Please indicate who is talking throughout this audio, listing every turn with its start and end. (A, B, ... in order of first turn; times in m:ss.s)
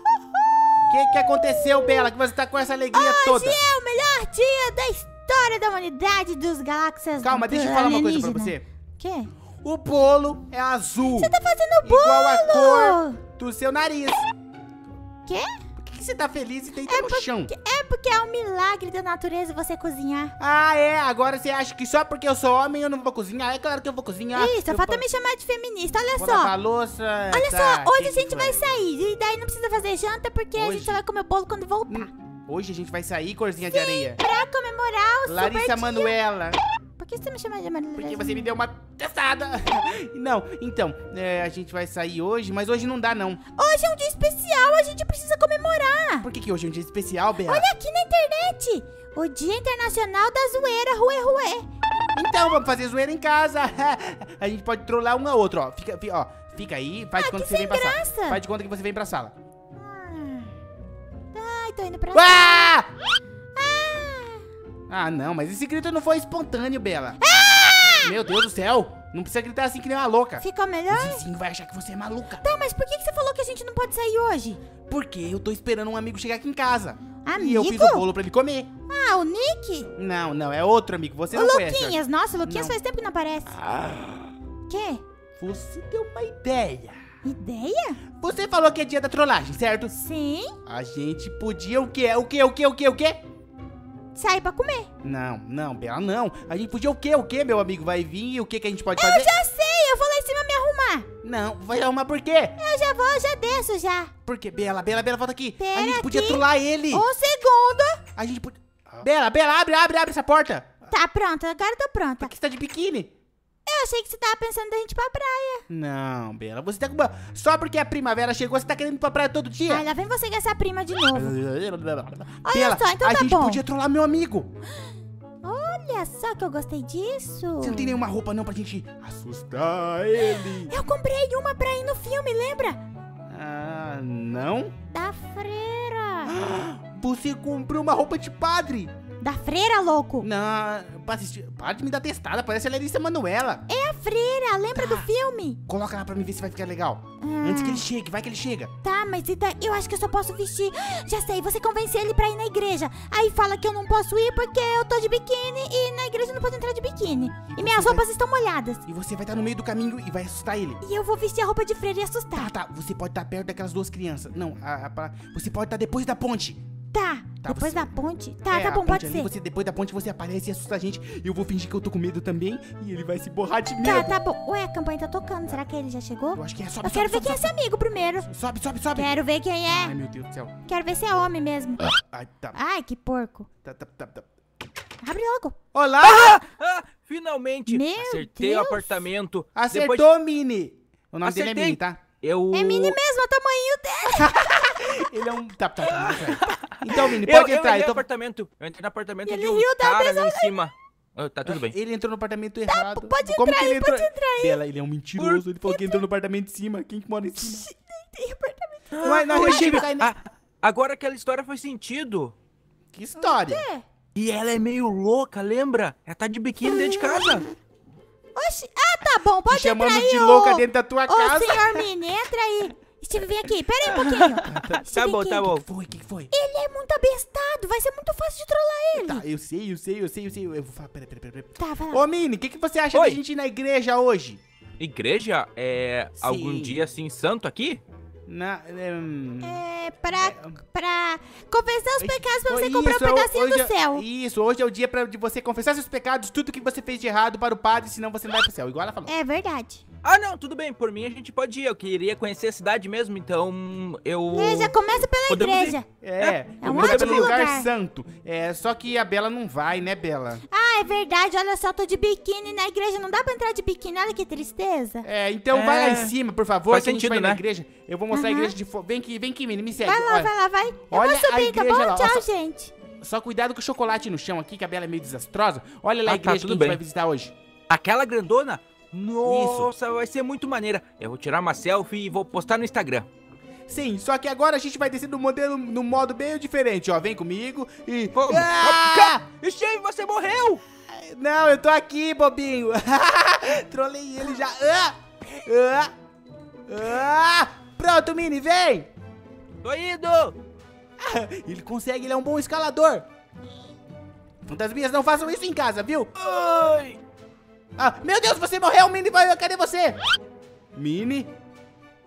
0:00.9-0:03.6 A
0:02.9-0:09.3 B
0:07.2-0:08.6 A
0:09.6-0:14.3 A
0:11.1-0:13.2 B
0:15.2-0:15.5 B
0:15.8-0:17.5 A
0:16.8-0:20.3 B
0:20.4-0:25.0 A
0:24.3-0:26.5 B
0:26.2-0:28.6 A
0:27.3-0:32.1 B
0:30.5-0:31.0 A
0:31.9-0:34.2 A
0:33.7-0:36.1 B
0:35.3-0:36.6 A
0:37.0-0:38.5 B
0:38.0-0:43.4 A
0:43.5-0:46.3 B
0:46.2-0:47.7 A
0:47.4-0:51.6 B
0:52.1-0:59.3 A
0:57.1-0:58.4 B
0:59.8-1:00.5 B
1:01.3-1:02.5 B
1:02.1-1:02.9 A
1:03.5-1:04.4 B
1:04.9-1:07.2 A
1:07.2-1:08.2 B
1:08.0-1:12.4 A
1:10.4-1:11.2 B
1:12.4-1:14.6 B
1:14.9-1:18.7 A
1:17.2-1:18.0 B
1:18.9-1:19.9 B
1:20.0-1:22.8 A
1:21.3-1:23.6 B
1:23.5-1:24.3 A
1:24.7-1:25.0 B
1:25.4-1:27.0 A
1:27.2-1:28.0 B
1:28.2-1:29.9 A
1:29.9-1:30.6 B
1:30.6-1:33.2 A
1:34.1-1:34.9 B
1:35.0-1:39.3 A
1:38.9-1:41.1 B
1:41.2-1:42.6 A
1:42.6-1:44.1 B
1:44.2-1:47.0 A
1:45.6-1:48.0 B
1:48.1-1:50.9 A
1:50.9-1:52.3 B
1:52.2-1:53.1 A
1:53.6-1:55.6 B
1:55.7-1:59.8 A
1:59.6-2:01.3 B
2:01.1-2:04.5 A
2:02.4-2:03.6 B
2:05.4-2:08.0 B
2:07.6-2:10.7 A
2:10.3-2:12.8 B
2:13.3-2:14.7 A
2:14.9-2:16.3 B
2:16.2-2:18.9 A
2:19.2-2:20.3 B
2:20.2-2:23.6 A
2:23.7-2:25.6 B
2:24.7-2:25.1 A
2:25.7-2:28.7 A
2:27.2-2:27.8 B
2:28.8-2:38.8 B
2:37.6-2:38.1 A
2:38.8-2:40.8 A
2:40.8-2:42.5 B
2:42.3-2:46.6 A
2:46.9-2:49.3 B
2:47.4-2:47.9 A
2:48.5-2:54.2 A
2:53.8-2:58.3 B
2:56.3-2:57.5 A
2:58.3-2:59.2 A
2:58.9-2:59.9 B
2:59.7-3:00.5 A
3:00.6-3:01.8 B
3:01.8-3:02.6 A
3:02.5-3:03.5 B
3:03.6-3:04.3 A
3:05.0-3:05.6 B
3:05.7-3:06.4 A
3:06.0-3:10.0 C
3:07.7-3:09.0 B
3:09.5-3:12.0 A
3:11.2-3:13.0 C
3:12.5-3:15.0 B
3:14.1-3:18.0 A
3:15.8-3:21.8 C
3:19.2-3:20.6 B
3:21.4-3:27.7 A
3:22.7-3:24.6 B
3:25.2-3:25.4 C
3:25.6-3:26.0 B
3:27.4-3:29.8 B
3:28.9-3:32.3 C
3:29.0-3:30.1 A
3:32.9-3:33.6 A
3:33.2-3:33.8 B
3:34.1-3:37.4 C
3:36.6-3:37.4 B
3:38.3-3:45.5 B
3:39.5-3:41.8 A
3:44.2-3:45.6 C
3:44.5-3:44.8 A
3:45.4-3:46.3 A
3:46.3-3:49.2 B
3:48.9-3:54.4 A
3:51.6-3:52.0 B
3:52.9-3:53.2 C
3:54.8-3:57.8 C
3:56.2-3:56.8 A
3:58.3-3:59.6 A
3:59.4-4:04.0 B
4:00.1-4:00.6 A
4:02.0-4:09.1 A
4:09.0-4:09.8 B
4:10.0-4:14.7 C
4:14.3-4:15.8 B
4:15.3-4:17.4 C
4:16.0-4:20.4 A
4:16.6-4:17.7 B
4:20.5-4:25.1 B
4:25.0-4:30.3 A
4:25.5-4:26.2 C
4:26.7-4:27.4 C
4:28.1-4:28.5 B
4:29.8-4:32.7 B
4:30.9-4:32.2 A
4:33.0-4:37.3 A
4:36.0-4:36.8 C
4:37.7-4:43.1 C
4:39.2-4:39.7 A
4:43.7-4:49.2 A
4:48.1-4:50.6 C
4:50.9-4:55.9 A
4:56.7-4:58.9 A
4:59.6-5:00.4 C
5:01.0-5:03.0 A
5:04.4-5:06.1 A
5:06.2-5:07.0 C
5:07.8-5:10.0 A
5:10.7-5:11.3 A